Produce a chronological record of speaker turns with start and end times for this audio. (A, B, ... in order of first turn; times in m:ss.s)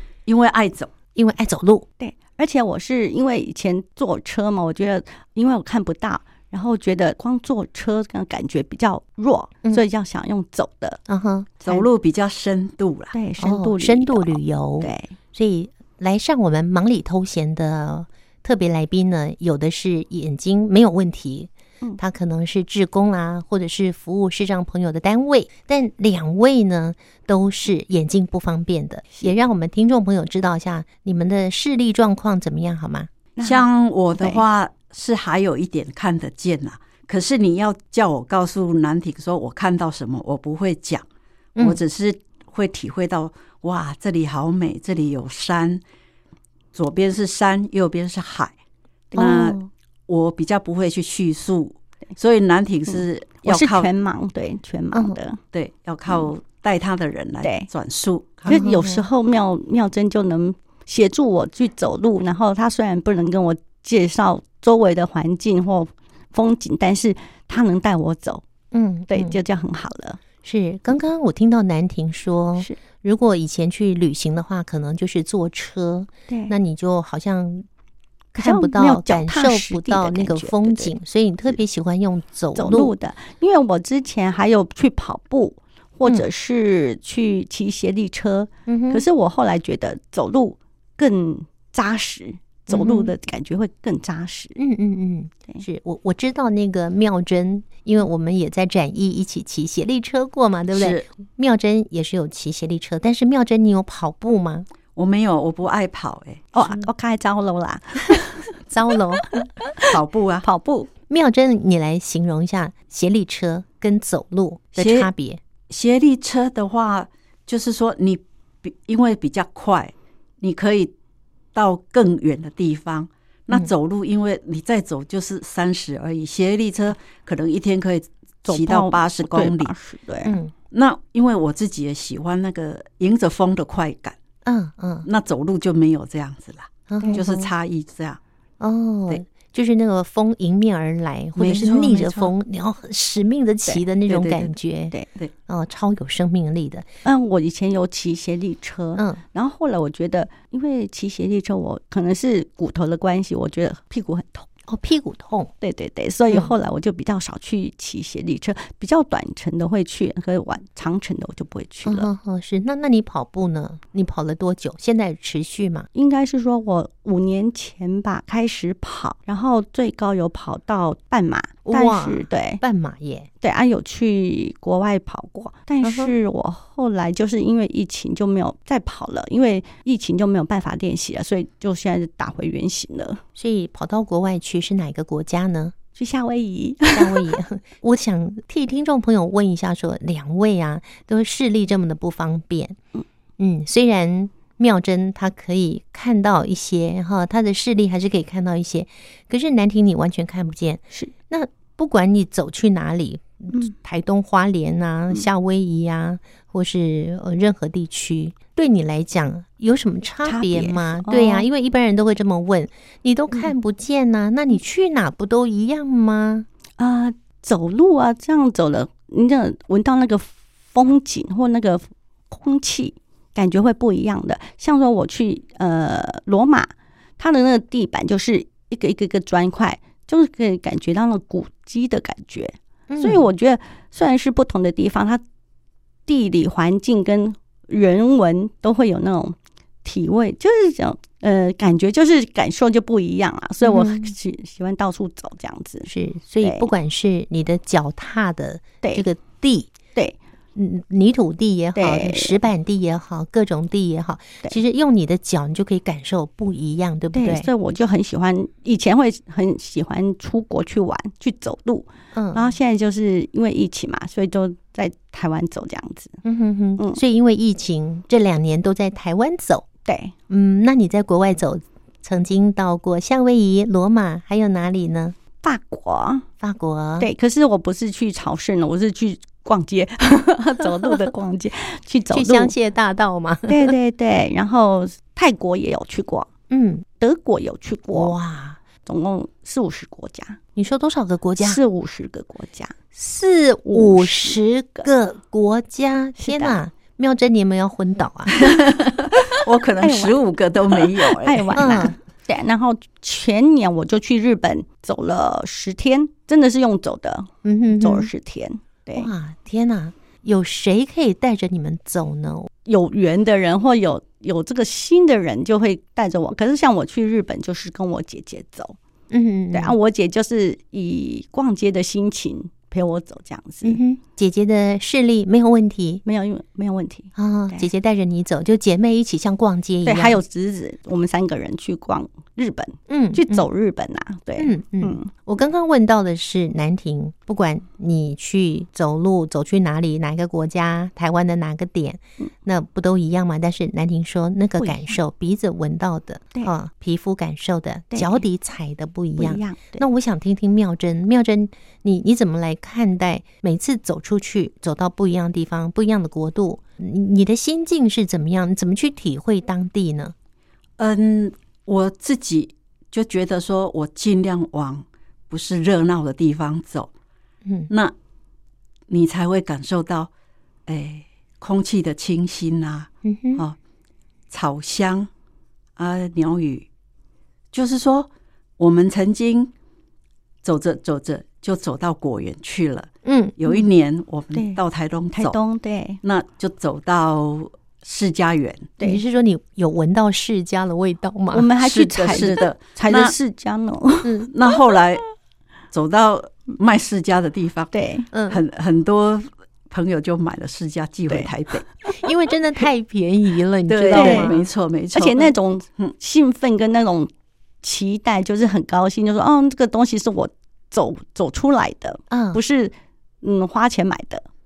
0:00.2-0:00.9 A
0:01.1-0:01.8 B
0:02.0-0:11.0 C
0:11.1-0:11.6 B
0:11.6-0:13.1 A
0:13.1-0:15.1 C
0:13.4-0:33.1 B
0:33.4-0:33.6 C
0:33.4-0:41.0 A
0:34.2-0:34.4 C
0:41.6-0:45.8 A
0:46.7-0:48.5 A
0:49.1-0:49.6 C
0:49.1-0:53.9 A
0:49.2-0:49.5 B
0:52.9-0:55.4 C
0:55.5-0:58.6 A
0:57.4-0:57.7 C
0:58.5-1:08.4 C
0:58.5-0:59.0 B
1:08.7-1:09.4 B
1:09.1-1:10.2 C
1:10.4-1:17.7 B
1:16.3-1:16.5 C
1:18.3-1:22.9 B
1:18.4-1:20.9 C
1:22.5-1:34.6 C
1:28.7-1:29.0 B
1:32.7-1:33.1 B
1:34.6-1:44.7 B
1:40.7-1:41.0 A
1:45.0-1:46.5 A
1:46.5-1:48.5 C
1:48.7-1:49.4 B
1:49.2-1:49.8 C
1:49.8-1:50.4 A
1:50.4-1:50.9 C
1:51.1-1:55.4 B
1:54.8-1:55.1 A
1:55.7-2:00.9 A
2:01.5-2:09.7 A
2:08.4-2:10.4 C
2:10.2-2:10.5 B
2:10.7-2:14.2 A
2:14.4-2:15.1 B
2:15.0-2:18.2 A
2:16.9-2:17.5 B
2:18.6-2:24.9 B
2:21.4-2:22.3 A
2:24.1-2:24.5 A
2:25.5-2:26.8 B
2:27.0-2:34.5 C
2:34.7-2:35.5 B
2:35.6-2:42.1 C
2:41.8-2:45.9 B
2:45.9-2:52.6 C
2:51.6-2:53.3 B
2:53.4-3:03.2 C
2:55.8-2:56.1 B
3:03.4-3:05.7 B
3:06.0-3:07.3 C
3:06.9-3:12.8 B
3:13.4-3:36.4 B
3:30.2-3:31.4 C
3:36.8-3:55.2 C
3:52.9-3:53.3 B
3:56.1-4:05.9 C
4:03.6-4:04.1 B
4:05.8-4:09.7 B
4:06.4-4:06.7 C
4:10.5-4:17.5 B
4:11.8-4:12.4 C
4:17.1-4:26.2 C
4:22.1-4:22.5 B
4:26.2-4:29.6 B
4:29.8-4:30.1 C
4:30.3-4:35.2 B
4:35.4-4:36.2 C
4:36.4-4:37.1 B
4:37.0-4:42.5 C
4:42.1-4:43.7 B
4:43.5-4:46.3 C
4:46.5-4:46.8 B
4:47.0-4:48.1 C
4:47.9-4:48.6 B
4:48.8-4:50.4 C
4:50.6-4:51.6 B
4:51.4-4:52.7 C
4:52.9-4:58.4 B
4:53.7-4:54.9 C
4:56.2-4:56.6 C
4:58.4-5:01.8 A
4:59.8-5:00.2 C
5:00.7-5:09.1 C
5:01.6-5:01.9 B
5:07.4-5:08.1 B
5:09.0-5:12.5 B
5:12.6-5:18.8 C
5:19.1-5:19.8 B
5:19.5-5:23.8 C
5:23.6-5:26.0 B
5:26.0-5:27.7 C
5:27.2-5:30.2 B
5:29.8-5:35.1 C
5:32.9-5:33.5 B
5:34.4-6:00.1 B
5:44.6-5:45.0 C
5:47.9-5:48.2 C
5:49.2-5:49.8 C
6:00.8-6:06.9 A
6:07.4-6:07.7 B
6:07.7-6:07.9 A
6:08.9-6:10.1 A
6:10.7-6:13.6 A
6:13.0-6:13.4 B
6:14.3-6:15.1 A
6:15.8-6:16.7 A
6:17.5-6:19.5 A
6:20.4-6:25.4 A
6:23.0-6:23.4 B
6:24.3-6:24.6 C
6:25.1-6:26.0 C
6:26.0-6:28.7 A
6:28.8-6:31.5 B
6:31.3-6:34.3 C
6:31.6-6:33.1 A
6:34.0-6:34.3 B
6:34.3-6:35.0 A
6:35.7-6:37.7 A
6:37.7-6:38.1 C
6:38.1-6:38.4 B
6:38.3-6:41.7 A
6:41.9-6:44.4 B
6:43.7-6:45.9 A
6:43.9-6:44.4 C
6:44.9-6:47.1 C
6:47.6-6:54.2 C
6:52.1-6:52.4 B